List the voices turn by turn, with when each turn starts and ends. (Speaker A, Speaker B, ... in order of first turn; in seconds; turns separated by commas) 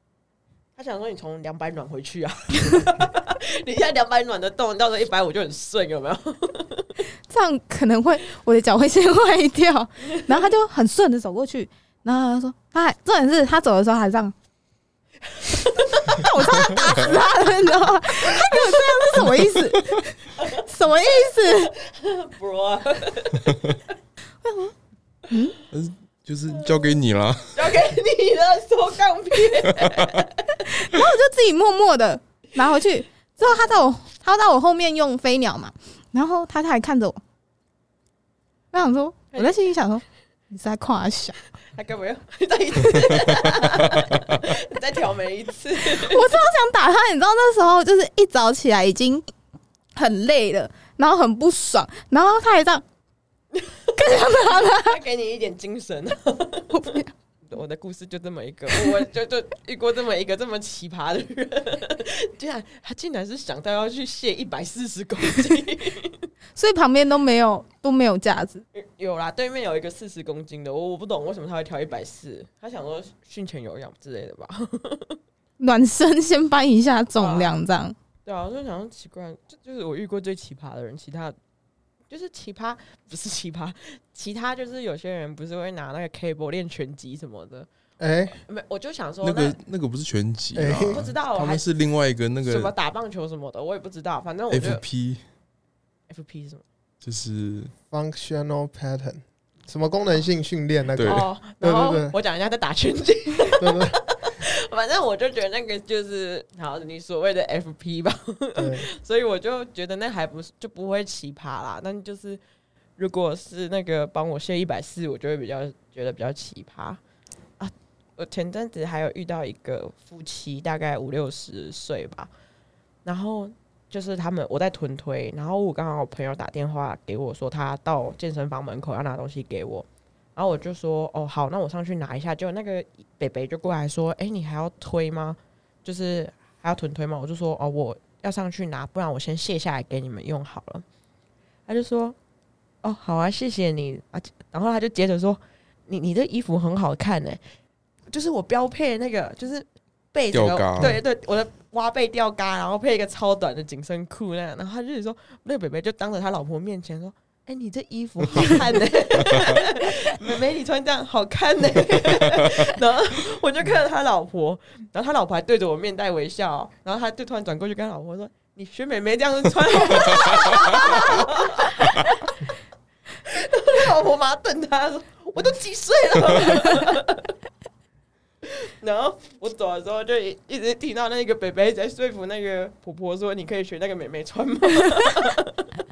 Speaker A: 0.8-6.9, Speaker B: 7.3-14.3, Speaker A: 15.3-16.7, Speaker B: 15.9-21.7, Speaker A: 18.4-19.1, Speaker C: 19.2-20.0, Speaker A: 21.2-23.7, Speaker B: 24.4-24.7, Speaker B: 25.3-25.6, Speaker C: 25.7-27.7, Speaker A: 26.5-27.0, Speaker A: 27.5-30.5, Speaker C: 29.6-30.2, Speaker B: 30.6-37.2, Speaker A: 33.4-33.7, Speaker B: 38.7-41.4, Speaker A: 41.7-46.3, Speaker B: 45.8-49.2, Speaker B: 50.0-52.8, Speaker A: 53.5-57.0, Speaker B: 54.0-55.0, Speaker B: 56.7-57.1, Speaker A: 57.5-66.3, Speaker B: 66.5-68.6, Speaker A: 68.7-75.2, Speaker B: 75.6-77.9, Speaker A: 77.2-77.5, Speaker A: 78.2-81.3, Speaker A: 82.1-87.7, Speaker D: 88.0-88.4, Speaker A: 88.3-89.6, Speaker C: 89.2-92.7, Speaker D: 90.5-91.1, Speaker A: 90.9-91.6, Speaker A: 92.4-94.8, Speaker C: 94.5-95.2, Speaker A: 96.1-96.6, Speaker C: 97.0-97.7, Speaker D: 97.9-102.2, Speaker C: 100.9-101.3, Speaker A: 101.0-112.4, Speaker D: 103.6-104.0, Speaker D: 108.5-108.9, Speaker A: 113.0-117.0, Speaker A: 117.6-122.3, Speaker A: 123.0-140.8, Speaker A: 141.7-142.2, Speaker A: 142.8-147.4, Speaker A: 148.1-172.5, Speaker C: 150.3-151.0, Speaker C: 159.2-159.6, Speaker C: 169.9-171.1, Speaker A: 173.2-177.3, Speaker A: 178.4-185.7